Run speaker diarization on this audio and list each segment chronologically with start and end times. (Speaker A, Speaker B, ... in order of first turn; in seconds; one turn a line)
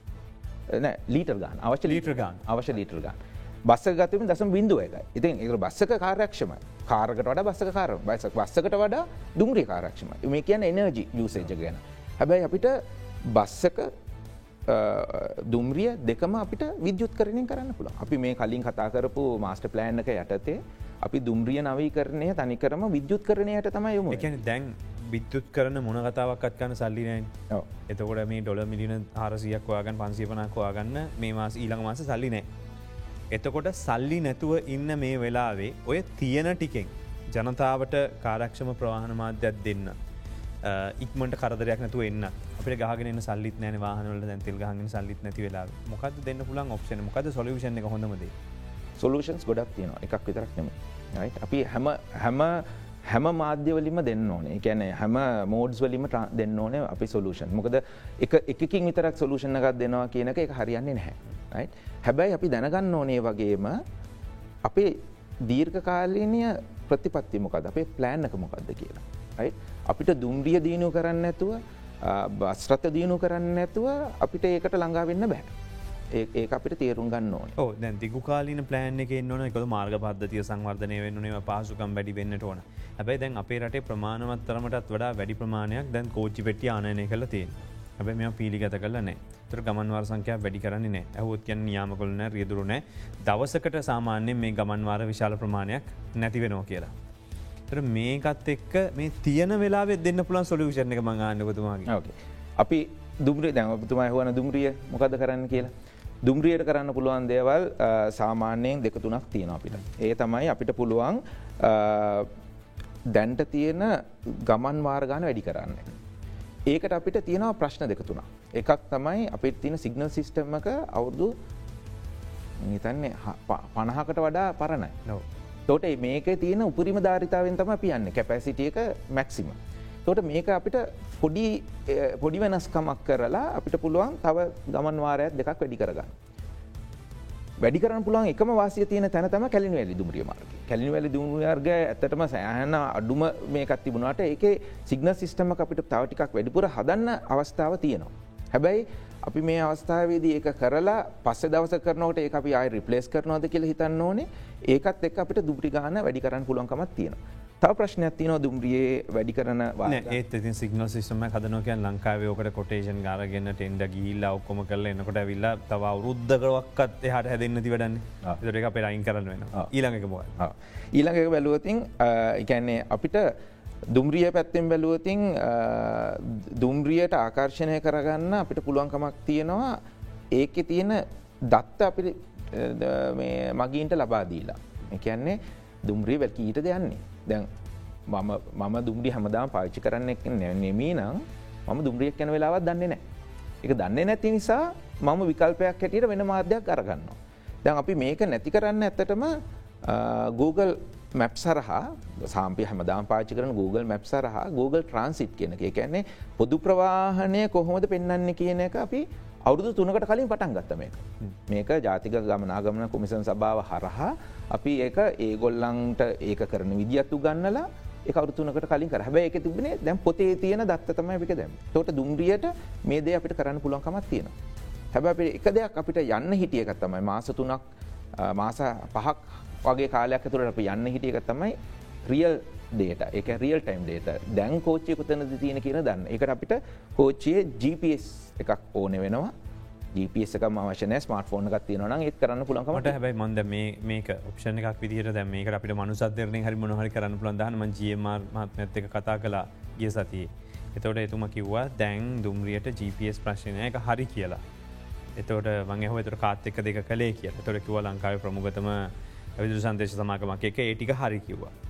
Speaker A: 0.7-13.9
Speaker B: 1.9-2.4
Speaker A: 14.7-24.3
Speaker B: 24.1-27.3
Speaker B: 27.9-32.5
Speaker B: 33.3-40.0
Speaker B: 40.6-48.3
Speaker A: 49.0-63.8
Speaker A: 64.7-75.5
Speaker A: 76.1-77.5
Speaker B: 77.6-96.9
Speaker B: 97.7-101.9
Speaker A: 101.9-105.7
Speaker A: 106.2-112.3
Speaker A: 113.1-115.9
Speaker A: 116.7-121.3
Speaker A: 122.6-125.0
Speaker A: 125.7-136.2
Speaker A: 137.6-160.2
Speaker B: 159.8-170.4
Speaker A: 170.4-173.3
Speaker A: 173.9-179.8
Speaker A: 180.3-187.5
Speaker A: 188.1-193.0
Speaker A: 193.6-224.3
Speaker A: 224.9-227.6
Speaker A: 228.2-231.5
Speaker A: 232.1-239.3
Speaker A: 239.9-243.0
Speaker B: 242.7-254.4
Speaker B: 255.2-261.5